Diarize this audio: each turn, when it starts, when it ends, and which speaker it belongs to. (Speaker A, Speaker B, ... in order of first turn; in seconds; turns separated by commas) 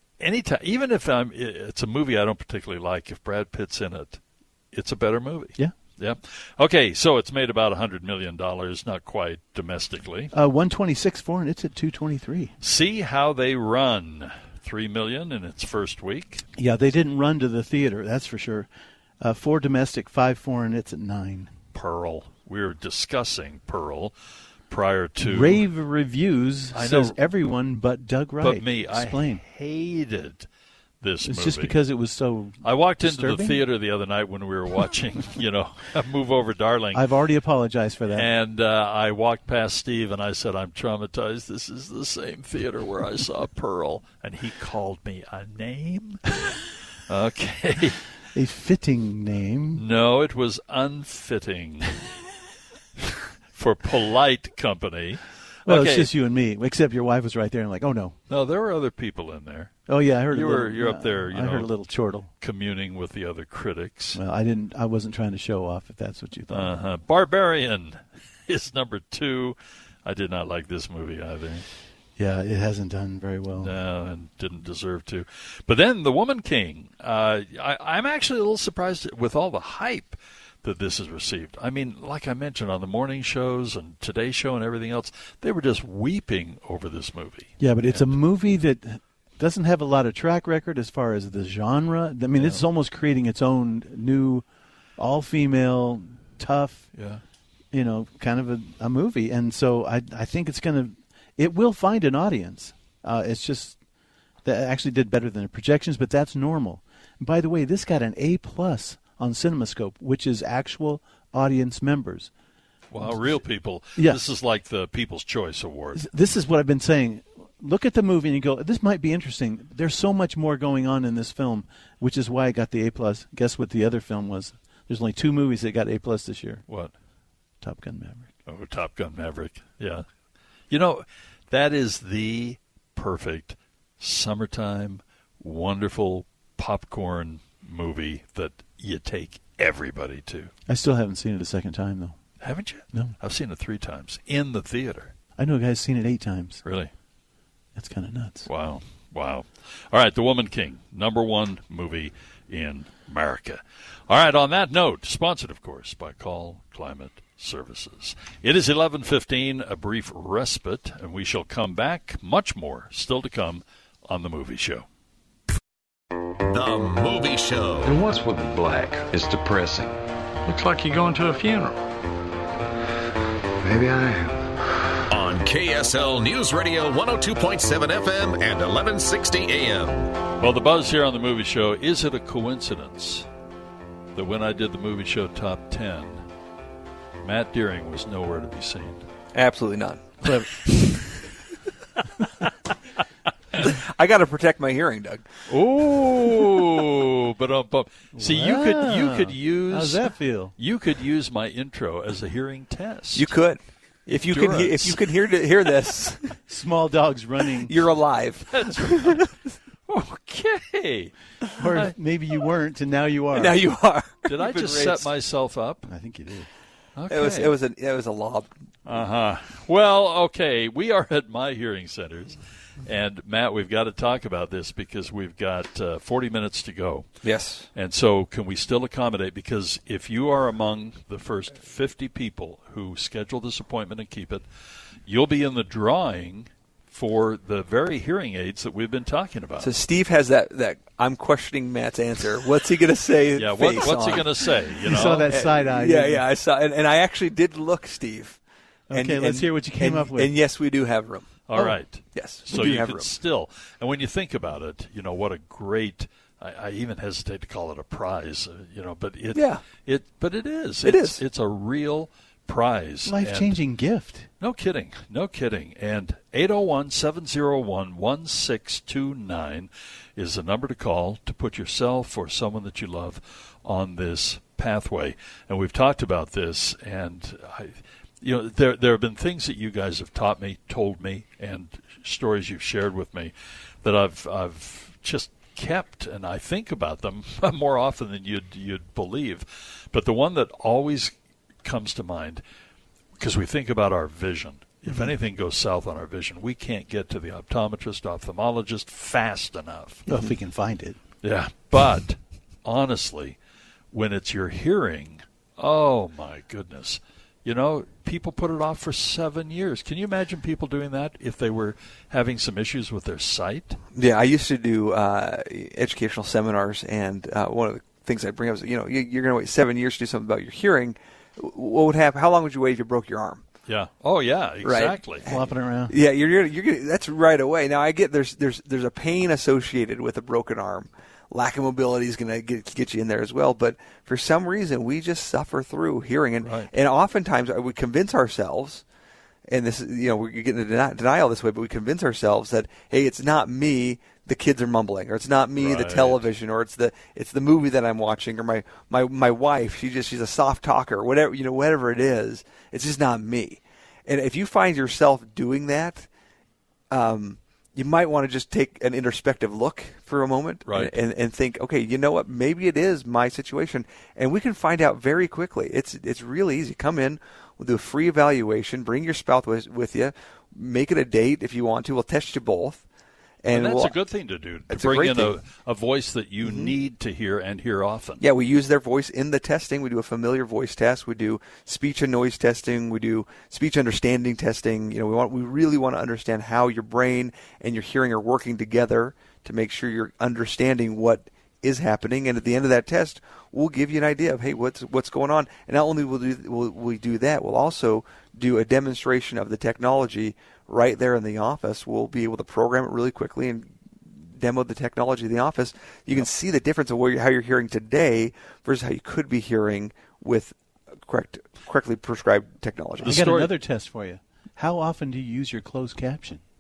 Speaker A: 0.2-4.2, Speaker A: 4.7-10.3, Speaker B: 10.3-12.5, Speaker A: 12.6-16.4, Speaker B: 16.6-18.7, Speaker B: 19.2-21.5, Speaker A: 21.7-24.1, Speaker A: 24.7-25.7, Speaker B: 25.2-29.4, Speaker A: 26.7-27.2, Speaker A: 28.4-30.5, Speaker A: 31.0-31.8, Speaker B: 31.2-33.6, Speaker A: 32.6-37.0, Speaker B: 36.9-38.3, Speaker A: 38.1-46.2, Speaker A: 47.1-48.0, Speaker B: 48.3-49.8, Speaker A: 49.8-52.0, Speaker A: 53.0-56.1, Speaker B: 55.6-58.1, Speaker A: 58.3-59.7, Speaker B: 59.9-62.3, Speaker A: 60.3-61.7, Speaker A: 62.4-64.2, Speaker B: 64.1-66.7, Speaker A: 66.5-71.7, Speaker B: 72.2-73.7, Speaker A: 73.6-88.2, Speaker B: 87.6-94.4, Speaker A: 92.4-92.6, Speaker B: 95.0-96.9, Speaker A: 96.9-97.2, Speaker B: 97.7-103.8, Speaker B: 104.4-112.3, Speaker A: 112.9-116.0, Speaker B: 113.0-113.4, Speaker B: 114.0-114.2, Speaker B: 115.9-126.6, Speaker A: 126.7-126.9, Speaker B: 127.6-128.3, Speaker A: 128.5-130.1, Speaker A: 130.7-140.5, Speaker B: 140.7-142.2, Speaker A: 142.4-145.1, Speaker B: 145.4-146.6, Speaker A: 146.6-146.9, Speaker B: 147.7-148.5, Speaker A: 148.4-164.8, Speaker C: 166.4-167.9, Speaker D: 167.8-171.8, Speaker D: 173.6-174.5, Speaker C: 175.1-180.1, Speaker A: 180.4-183.3, Speaker A: 184.1-186.2, Speaker A: 187.2-189.0, Speaker E: 189.3-190.1, Speaker B: 190.2-190.5, Speaker E: 193.6-195.2, Speaker A: 195.5-203.3, Speaker B: 198.1-200.5, Speaker E: 203.1-206.2, Speaker A: 204.2-205.1, Speaker B: 206.5-207.7, Speaker E: 207.6-209.3, Speaker A: 208.5-209.3, Speaker A: 209.9-211.9, Speaker B: 211.6-213.6, Speaker E: 213.3-215.1, Speaker A: 214.2-215.9, Speaker B: 215.8-216.5, Speaker A: 216.9-217.5, Speaker E: 217.1-218.5, Speaker A: 218.8-227.1, Speaker E: 227.2-227.7, Speaker A: 227.7-234.4, Speaker A: 235.1-239.7, Speaker E: 239.6-248.4, Speaker A: 243.3-245.3, Speaker B: 244.8-246.2, Speaker B: 248.9-250.3, Speaker E: 248.9-253.1, Speaker A: 251.5-263.6, Speaker E: 259.3-259.6, Speaker E: 260.8-261.2, Speaker B: 263.0-264.3, Speaker A: 264.4-291.1, Speaker A: 291.6-292.4, Speaker A: 293.2-300.0, Speaker B: 294.9-295.1, Speaker B: 300.1-301.0, Speaker A: 301.2-303.4, Speaker A: 303.9-313.8, Speaker E: 313.9-323.4, Speaker A: 323.7-325.2, Speaker E: 324.6-338.8, Speaker B: 325.2-325.9, Speaker A: 336.4-336.7, Speaker E: 339.5-356.1, Speaker A: 345.6-346.3, Speaker E: 356.9-372.8, Speaker A: 360.7-360.9, Speaker E: 373.4-373.9, Speaker A: 373.5-378.2, Speaker E: 374.7-375.4, Speaker E: 376.4-376.7, Speaker E: 378.2-403.7, Speaker E: 404.3-413.3, Speaker A: 413.0-413.5, Speaker B: 413.0-416.4